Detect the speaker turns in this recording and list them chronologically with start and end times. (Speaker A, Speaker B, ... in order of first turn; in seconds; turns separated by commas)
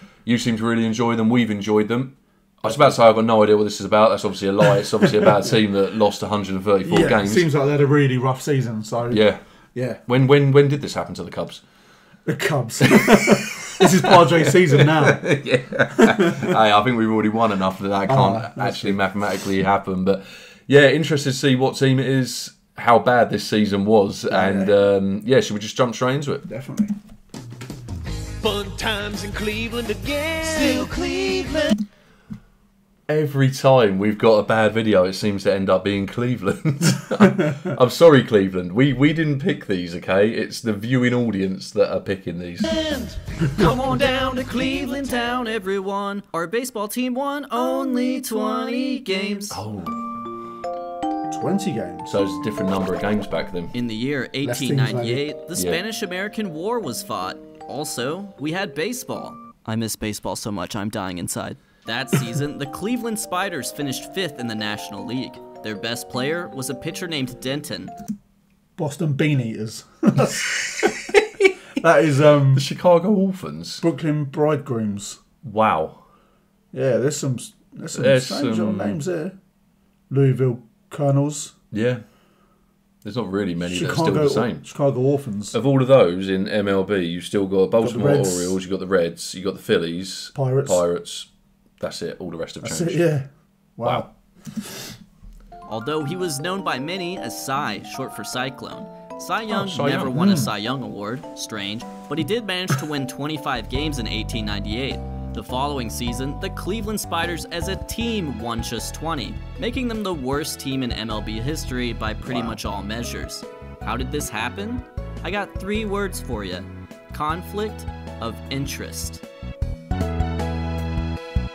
Speaker A: 0.2-7.5, Speaker B: 2.6-3.0, Speaker B: 6.8-10.0, Speaker A: 9.1-9.5, Speaker A: 10.0-11.6, Speaker B: 12.2-15.4, Speaker A: 12.9-26.4, Speaker B: 15.9-16.5, Speaker B: 18.1-19.0, Speaker B: 24.3-24.8, Speaker B: 26.5-26.9, Speaker C: 28.4-31.7, Speaker A: 33.1-42.7, Speaker D: 42.8-49.6, Speaker A: 49.5-50.4, Speaker B: 51.3-52.1, Speaker A: 52.0-53.7, Speaker D: 53.7-67.9, Speaker B: 54.4-55.2, Speaker A: 55.5-55.8, Speaker B: 68.8-70.9, Speaker A: 70.7-71.5, Speaker B: 71.8-72.7, Speaker A: 72.5-73.8, Speaker B: 73.8-75.2, Speaker A: 75.4-76.0, Speaker B: 76.7-79.3, Speaker A: 77.9-79.0, Speaker B: 80.1-81.5, Speaker A: 81.7-82.0, Speaker A: 83.0-84.7, Speaker B: 83.6-85.5, Speaker A: 85.5-93.1, Speaker B: 87.8-88.6, Speaker B: 90.3-90.8, Speaker B: 92.6-94.9, Speaker D: 95.7-119.2, Speaker A: 99.5-100.2, Speaker B: 100.1-100.5, Speaker B: 112.2-112.6